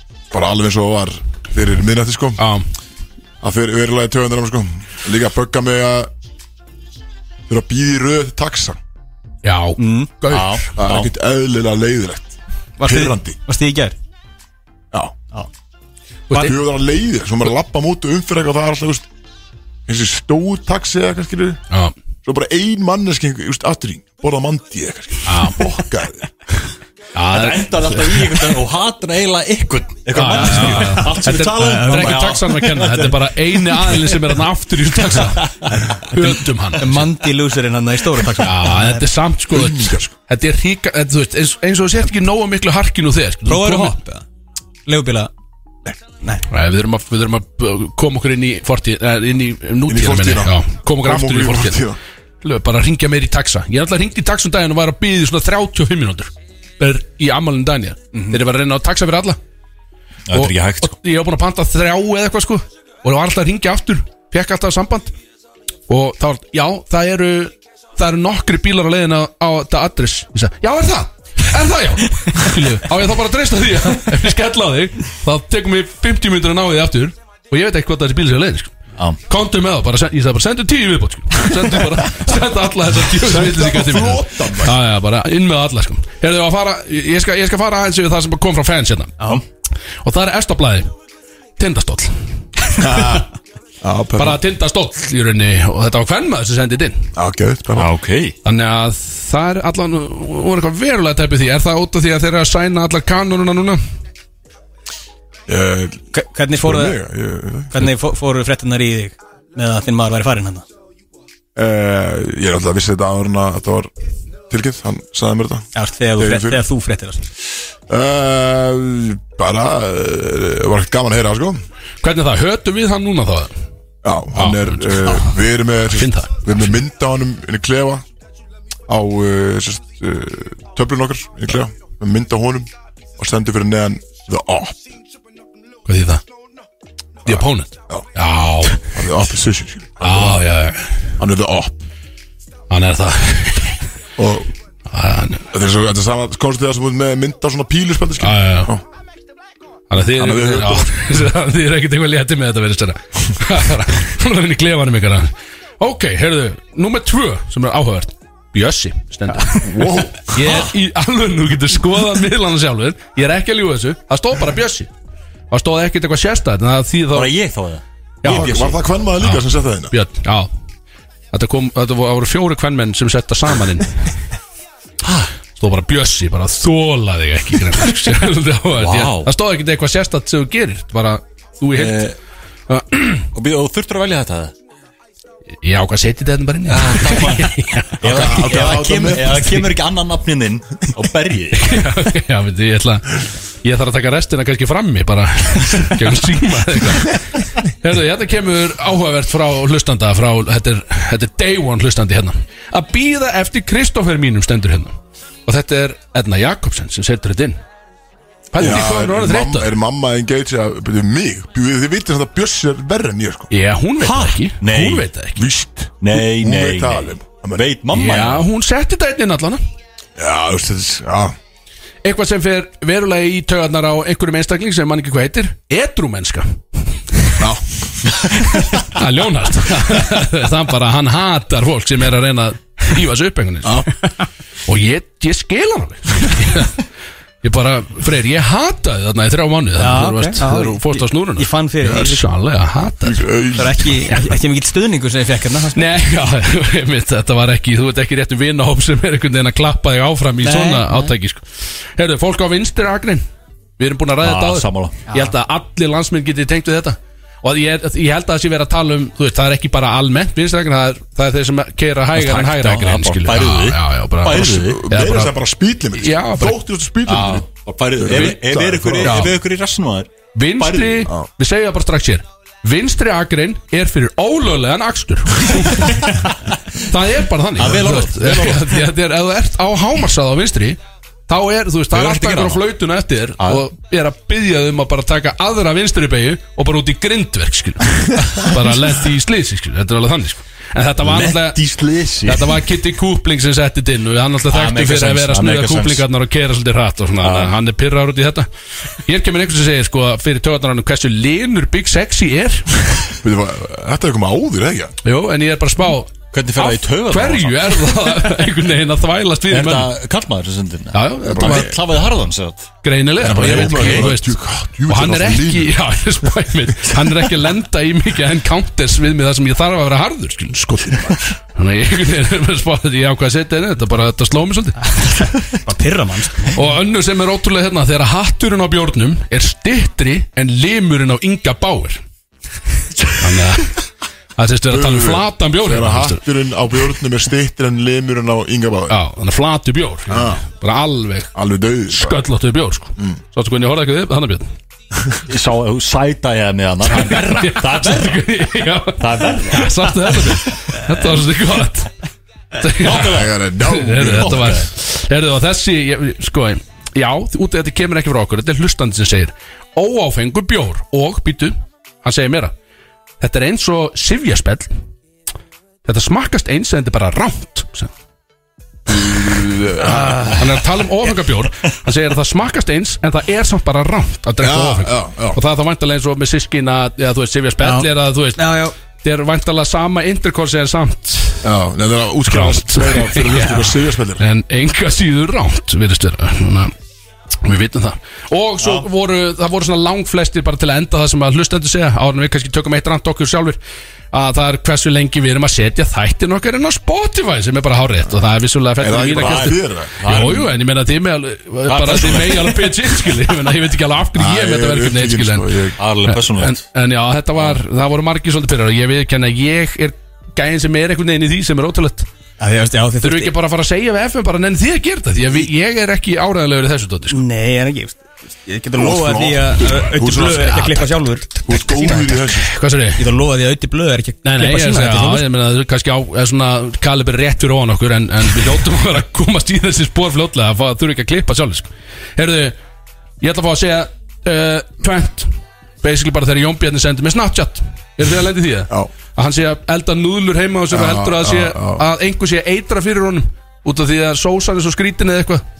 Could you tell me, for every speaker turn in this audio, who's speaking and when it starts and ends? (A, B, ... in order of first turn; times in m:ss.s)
0:00.3-0:02.4 A
0:02.4-0:02.7 B
0:03.4-0:06.1 A
0:07.5-0:08.8 A
0:09.4-0:10.6 B
0:09.8-0:10.1 C
0:10.3-0:11.1 D
0:10.8-0:13.4 A
0:12.8-0:14.0 C
0:16.3-0:16.6 B
0:16.4-0:19.1 A
0:19.9-0:21.6 A
0:22.2-0:26.3 A
0:25.3-0:25.7 B
0:27.2-0:28.5 B
0:27.3-0:34.1 D
0:30.1-0:37.1 B
0:30.4-0:32.3 C
0:36.8-0:39.0 C
0:38.4-0:44.0 B
0:39.5-0:40.1 A
0:43.5-0:44.2 C
0:44.9-0:45.3 C
0:46.5-0:51.8 B
0:49.9-0:52.0 A
0:52.4-0:56.3 B
0:56.8-0:59.4 B
1:00.3-1:01.0 D
1:00.3-1:05.1 B
1:05.9-1:18.7 B
1:19.3-1:29.2 B
1:23.1-1:24.8 A
1:30.0-1:30.9 B
1:31.6-1:32.2 B
1:32.8-1:33.3 A
1:32.9-1:33.2 B
1:33.8-1:34.4 A
1:34.2-1:37.0 B
1:37.2-1:37.9 A
1:37.8-1:38.4 D
1:38.4-1:43.8 B
1:45.5-1:46.0 A
1:46.1-1:47.0 C
1:46.6-1:47.9 A
1:47.7-1:50.6 C
1:51.6-1:53.9 A
1:54.5-1:55.7 A
1:55.8-1:57.3 C
1:56.2-1:56.6 A
1:57.9-2:01.6 A
2:02.0-2:03.5 B
2:04.0-2:08.0 A
2:04.4-2:05.4 B
2:05.9-2:06.8 B
2:08.9-2:14.8 A
2:15.9-2:16.2 B
2:17.2-2:18.0 A
2:17.3-2:18.9 B
2:18.9-2:20.4 A
2:20.0-2:21.1 B
2:21.2-2:21.8 A
2:22.7-2:23.8 B
2:24.2-2:24.5 A
2:24.9-2:25.5 B
2:25.5-2:28.8 A
2:28.2-2:28.7 B
2:29.9-2:44.9 B
2:30.2-2:31.1 A
2:39.6-2:40.6 A
2:45.5-2:47.3 B
2:47.1-2:48.8 D
2:48.2-2:50.5 B
2:48.2-2:49.9 A
2:51.3-2:54.0 B
2:55.0-2:55.3 D
2:55.6-3:02.1 B
2:58.8-2:59.3 D
3:01.8-3:02.2 D
3:02.7-3:03.3 B
3:03.3-3:04.5 D
3:05.6-3:09.7 B
3:06.7-3:11.9 D
3:08.0-3:09.6 A
3:11.6-3:25.0 B
3:25.5-3:27.6 B
3:28.5-3:29.7 B
3:28.6-3:33.5 A
3:33.5-3:35.5 B
3:34.0-3:35.1 D
3:35.4-3:37.7 A
3:36.0-3:38.4 D
3:37.9-3:39.6 B
3:40.2-3:41.4 A
3:42.0-3:46.6 B
3:47.4-3:48.1 A
3:48.5-3:53.9 B
3:54.7-3:56.8 B
3:57.4-4:03.3 B
3:59.8-4:02.2 C
4:03.0-4:04.0 A
4:03.6-4:05.8 C
4:05.7-4:13.2 B
4:10.4-4:11.1 C
4:13.8-4:25.3 B
4:14.2-4:15.0 D
4:22.1-4:24.8 D
4:24.3-4:29.3 A
4:26.0-4:26.6 B
4:27.1-4:31.1 D
4:28.1-4:28.4 B
4:29.0-4:29.4 B
4:30.4-4:36.1 B
4:36.8-4:51.6 B
4:37.6-4:38.8 D
4:41.9-4:42.6 D
4:51.0-4:52.6 D
4:52.2-4:58.5 B
4:54.5-4:56.0 D
4:57.2-4:57.5 D
4:59.0-5:02.9 B
5:03.2-5:04.9 A
5:05.0-5:09.9 B
5:06.3-5:08.3 D
5:09.5-5:12.7 D
5:10.9-5:11.8 B
5:11.2-5:11.7 A
5:12.8-5:14.4 B
5:13.2-5:15.8 A
5:13.3-5:14.1 D
5:14.9-5:21.0 B
5:20.6-5:21.4 A
5:21.6-5:25.3 B
5:25.0-5:26.6 C
5:26.5-5:32.0 B
5:33.2-5:33.8 B
5:34.4-5:36.2 B
5:34.7-5:39.0 A
5:38.9-5:41.3 B
5:40.1-5:40.4 A
5:41.4-5:42.2 A
5:41.9-5:44.5 B
5:45.3-5:50.2 D
5:46.8-5:51.9 B
5:52.6-6:02.5 B
5:52.8-5:53.4 D
5:53.0-5:54.6 A
5:54.0-5:54.7 D
6:03.2-6:04.7 B
6:05.8-6:07.9 B
6:08.9-6:10.4 A
6:09.9-6:10.4 C
6:10.4-6:21.4 B
6:14.4-6:15.4 A
6:17.6-6:18.7 C
6:21.4-6:24.3 A
6:22.3-6:26.7 B
6:27.4-6:33.6 B
6:28.6-6:28.9 D
6:34.1-6:45.5 B
6:38.8-6:40.0 A
6:39.0-6:40.5 D
6:41.7-6:43.2 D
6:44.2-6:45.8 A
6:45.8-6:46.6 D
6:46.0-6:52.1 B
6:52.4-6:53.3 C
6:53.0-6:57.2 B
6:57.1-7:02.2 C
6:58.7-7:00.8 A
7:01.4-7:02.5 A
7:02.3-7:03.0 B
7:03.0-7:05.2 C
7:04.2-7:12.6 B
7:13.2-7:15.3 B
7:15.8-7:25.4 B
7:20.7-7:21.8 A